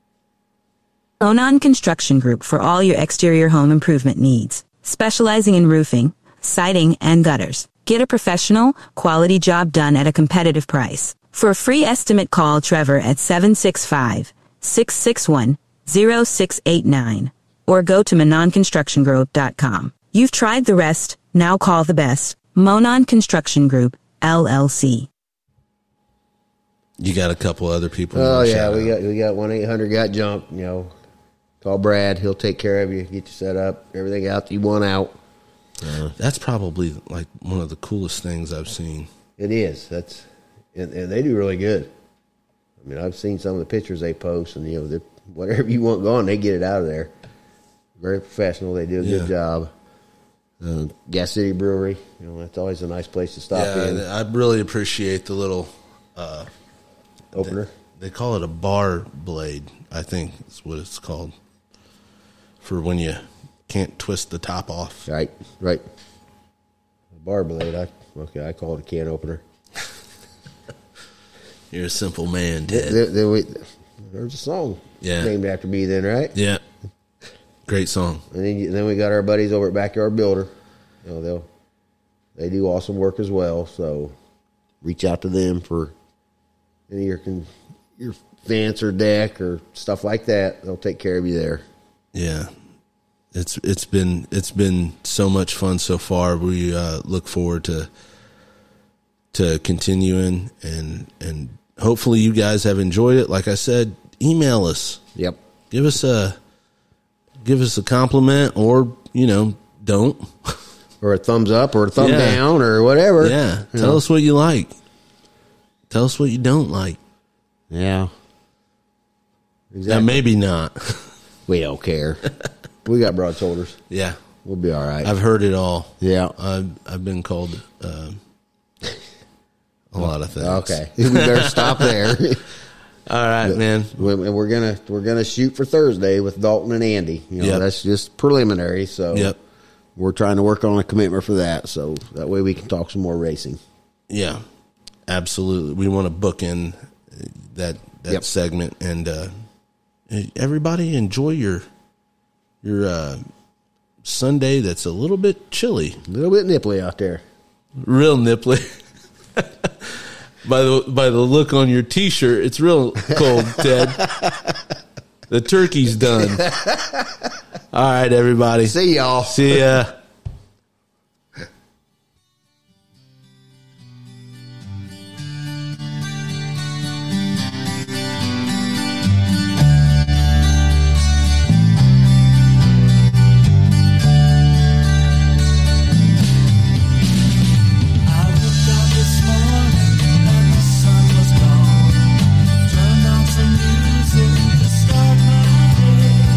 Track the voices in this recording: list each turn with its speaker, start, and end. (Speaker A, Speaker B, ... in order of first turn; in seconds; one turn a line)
Speaker A: 1.2-25.1
Speaker B: 27.0-28.9
Speaker C: 28.1-30.9
Speaker C: 31.6-35.1
Speaker C: 35.8-36.1
Speaker B: 36.1-39.1
Speaker C: 39.4-41.9
Speaker C: 42.8-47.1
Speaker C: 48.0-49.7
Speaker B: 49.0-49.3
Speaker C: 50.6-54.0
Speaker B: 53.5-56.5
Speaker C: 57.3-57.7
Speaker B: 57.4-61.3
Speaker B: 62.6-65.1
Speaker C: 65.1-65.8
Speaker C: 67.1-69.4
Speaker B: 71.7-73.0
Speaker C: 72.7-76.4
Speaker B: 75.0-75.3
Speaker B: 76.3-76.6
Speaker B: 77.7-78.2
Speaker C: 78.3-80.5
Speaker C: 81.0-81.5
Speaker C: 82.4-84.1
Speaker C: 84.8-86.0
Speaker C: 86.9-91.6
Speaker B: 92.1-92.5
Speaker B: 93.3-97.9
Speaker B: 99.3-105.0
Speaker B: 105.7-106.4
Speaker B: 107.4-110.6
Speaker C: 111.0-114.0
Speaker B: 112.0-112.5
Speaker B: 113.2-114.7
Speaker B: 115.9-117.0
Speaker C: 117.7-118.1
Speaker C: 119.7-120.2
Speaker B: 119.9-121.2
Speaker C: 121.5-122.3
Speaker C: 122.8-123.8
Speaker B: 123.9-124.2
Speaker C: 124.5-125.1
Speaker B: 125.0-128.2
Speaker C: 126.0-126.3
Speaker B: 129.9-132.2
Speaker C: 130.0-132.5
Speaker B: 133.1-134.1
Speaker C: 133.4-139.4
Speaker C: 140.0-143.6
Speaker B: 144.1-144.4
Speaker B: 145.1-149.3
Speaker B: 150.1-151.7
Speaker B: 152.6-153.2
Speaker B: 154.0-156.0
Speaker C: 156.1-157.2
Speaker B: 157.8-158.7
Speaker B: 159.3-164.0
Speaker C: 163.1-164.6
Speaker B: 165.3-166.4
Speaker C: 166.3-167.3
Speaker B: 167.7-169.9
Speaker C: 168.7-169.8
Speaker B: 188.2-192.1
Speaker B: 192.7-196.1